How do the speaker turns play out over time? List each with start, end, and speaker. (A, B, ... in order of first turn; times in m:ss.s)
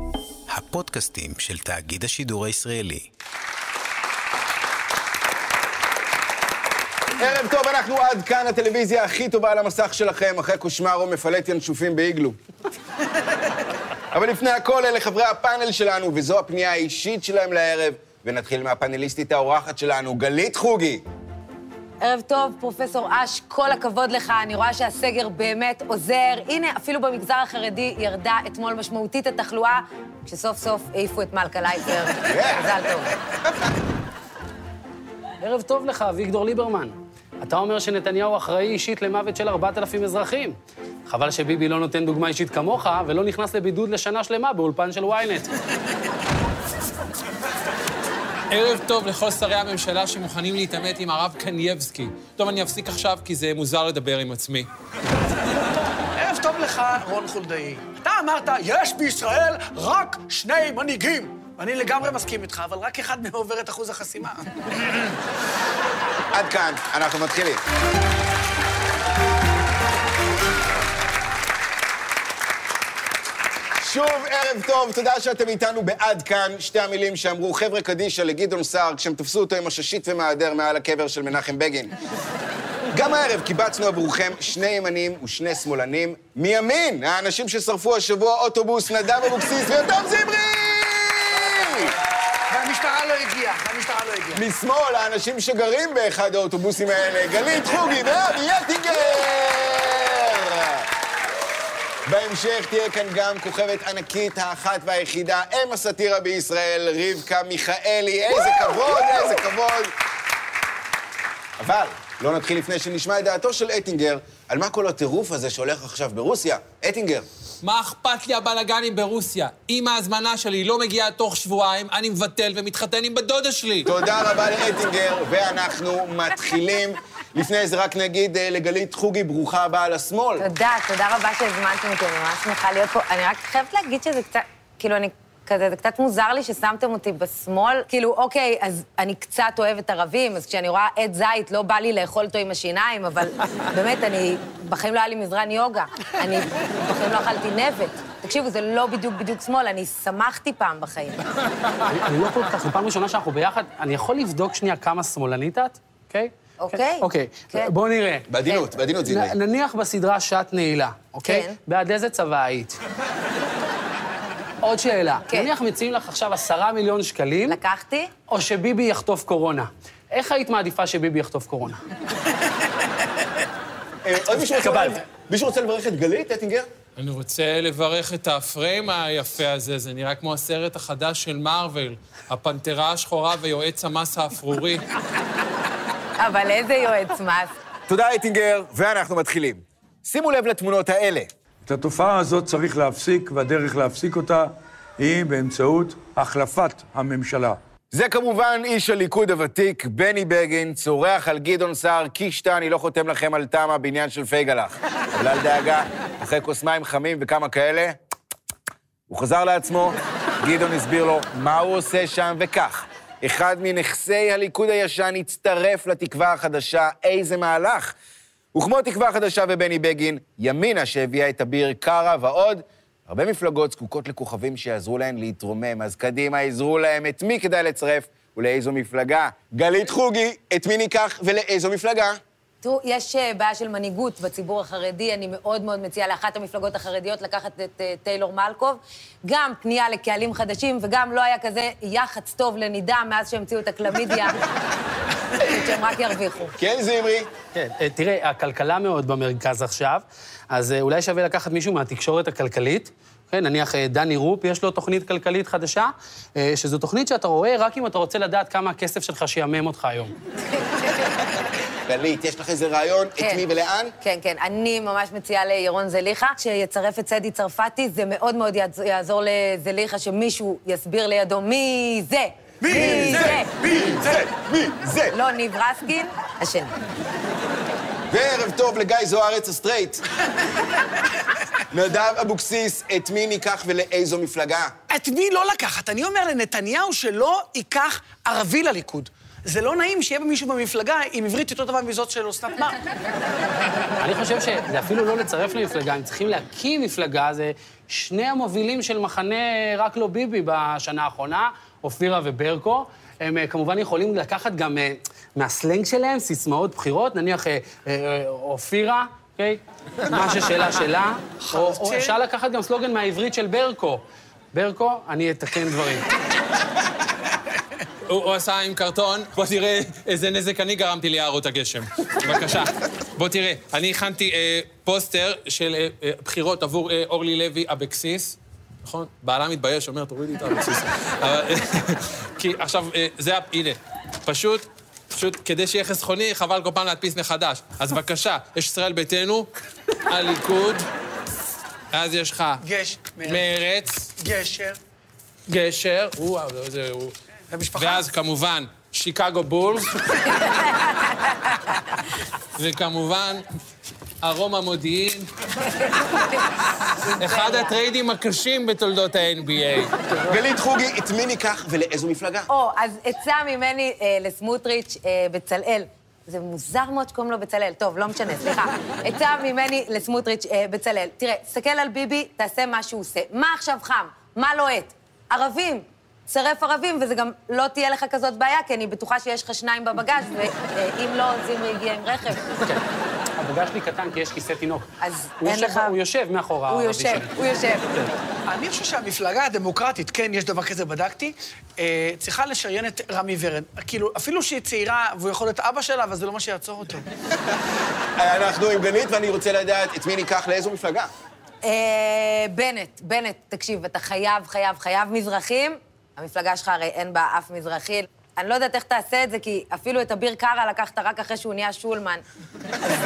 0:00.5-0:03.1 A
0:07.2-0:12.4 B
0:14.1-0:21.0 B
0:22.0-0:33.1 C
0:32.2-0:32.7 B
0:35.4-0:45.5 D
0:48.5-0:54.7 E
0:56.2-1:05.0 F
1:06.3-1:07.6 B
1:13.8-1:21.9 B
1:22.9-1:31.9 B
1:32.5-1:34.4 F
1:34.3-1:40.9 B
1:42.1-1:49.9 B
1:51.6-1:57.3 B
1:57.6-2:03.9 E
2:03.8-2:10.5 B
2:10.4-2:31.2 C
2:31.9-2:38.3 D
2:36.6-2:37.7 C
2:38.3-2:39.4 B
2:39.0-2:42.8 D
2:41.2-2:41.6 C
2:44.6-2:47.6 D
2:47.5-2:48.1 C
2:48.3-2:51.8 D
2:54.0-2:56.7 B
2:54.6-2:55.0 D
2:57.0-3:04.9 E
3:06.2-3:07.5 C
3:07.9-3:11.3 B
3:11.7-3:17.6 G
3:17.9-3:28.0 B
3:29.1-3:37.9 B
3:38.5-3:52.2 B
3:52.6-4:04.4 C
4:05.4-4:06.6 C
4:06.6-4:07.3 B
4:07.5-4:20.2 D
4:21.9-4:23.9 B
4:23.2-4:23.4 C
4:24.0-4:33.5 C
4:32.6-4:34.2 F
4:32.7-4:35.2 B
4:35.1-4:36.7 C
4:38.1-4:40.0 B
4:41.7-4:44.7 B
4:44.9-4:52.8 F
4:54.0-5:14.0 D
5:11.4-5:12.2 F
5:14.5-5:16.1 D
5:18.1-5:39.5 E
5:40.1-5:40.9 E
5:41.9-5:42.6 E
5:42.6-5:43.5 F
5:43.2-5:44.1 E
5:44.2-5:44.8 F
5:45.5-5:47.2 E
5:47.5-5:48.1 F
5:47.8-5:50.4 E
5:52.6-5:53.4 E
5:54.2-5:55.3 E
5:57.0-5:57.8 C
5:57.2-6:00.0 E
6:00.2-6:02.5 B
6:02.5-6:22.6 C
6:23.4-6:24.8 D
6:25.0-6:26.0 C
6:25.4-6:27.3 D
6:26.7-6:27.9 C
6:28.5-6:37.0 F
6:38.2-6:41.1 B
6:41.6-6:52.2 C